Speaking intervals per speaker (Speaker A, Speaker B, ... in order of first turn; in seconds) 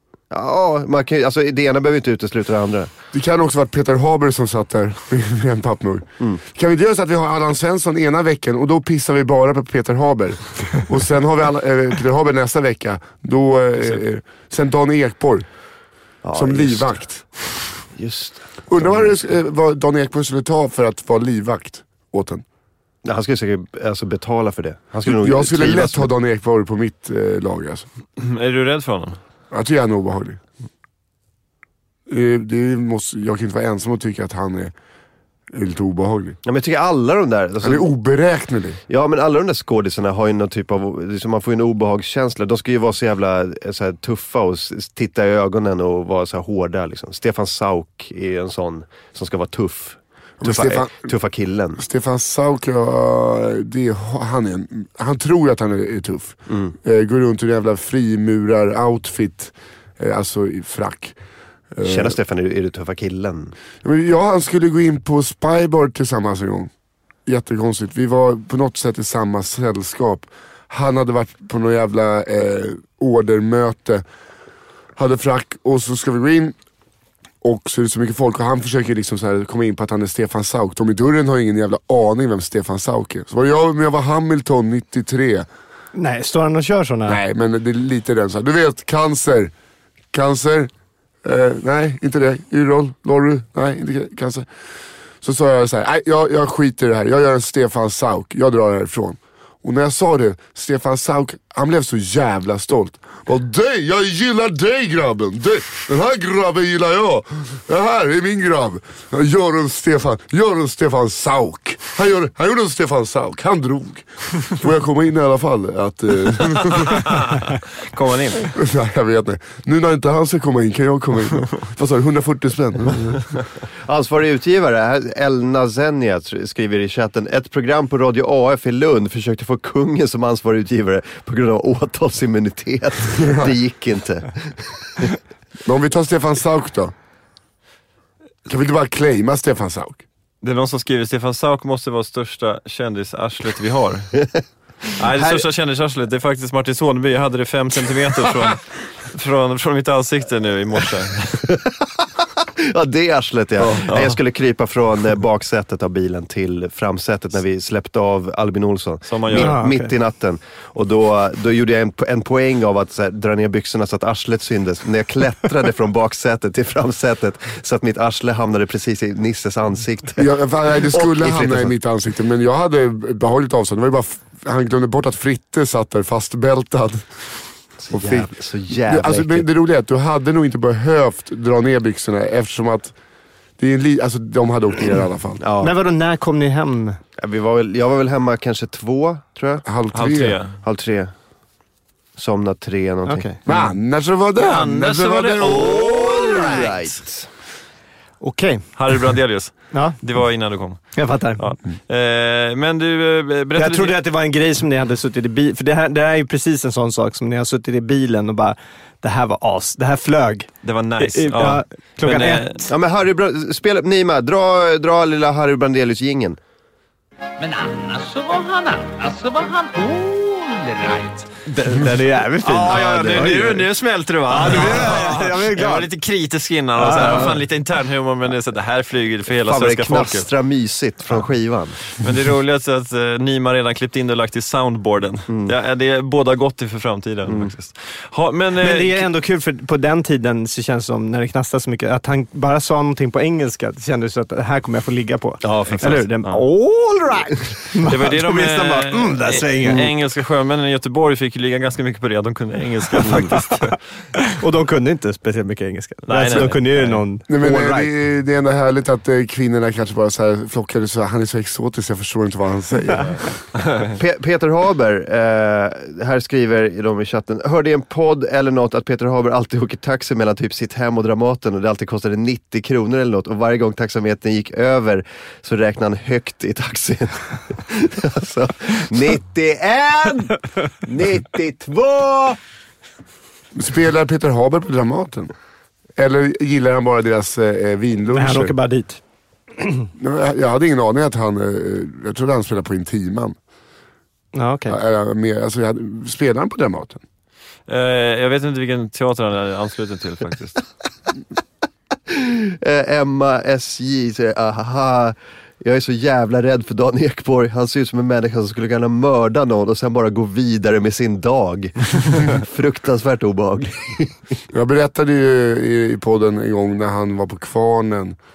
Speaker A: 0.3-2.9, 16.2-16.9, 17.9-19.2, 23.0-26.1, 36.4-37.9, 38.9-51.8, 56.5-56.7, 61.8-63.5, 123.8-135.1, 145.1-145.4, 151.5-171.8, 177.8-179.5, 185.4-185.7, 187.2-189.6, 190.6-191.1, 192.2-193.3, 195.4-197.3, 212.7-216.4, 229.4-231.8, 235.3-235.5, 237.2-237.5, 245.4-246.0, 253.0-253.3, 263.9-282.4, 302.1-314.2
Speaker B: 3.1-15.4, 16.3-17.3, 18.7-22.4, 25.0-27.9, 29.5-30.4, 32.1-34.7, 35.5-36.4, 37.6-38.8, 50.4-51.1, 51.8-61.1, 61.7-62.2, 63.8-66.7, 67.2-74.0, 75.0-76.5, 77.4-85.5, 87.0-89.5, 90.1-90.7, 91.2-94.5, 95.2-117.2, 118.5-123.3, 133.2-133.5, 135.6-136.9, 138.5-140.0, 170.2-177.1, 177.9-182.9, 183.6-185.4, 189.7-190.4, 193.4-196.2, 257.3-263.2, 283.5-285.3, 286.0-288.5, 290.0-293.4, 294.7-297.0, 314.5-318.2
Speaker C: 28.2-29.2, 117.0-118.5, 140.4-144.1, 144.9-151.5, 153.6-154.2, 159.1-159.6, 189.9-190.6, 194.4-196.8, 198.8-204.0, 210.6-212.6, 222.4-230.3, 231.9-239.1, 245.8-246.4, 247.8-253.8, 256.1-257.0, 297.7-300.6
Speaker D: 85.9-87.2, 159.3-159.9, 185.6-187.0, 193.1-193.4, 198.2-198.7, 199.7-200.0, 200.9-201.5, 203.6-212.7, 221.5-223.7, 224.3-225.9, 226.8-227.4, 238.6-249.9, 253.0-257.9, 288.1-289.0, 289.6-289.9, 294.3-294.8
Speaker E: 217.4-221.3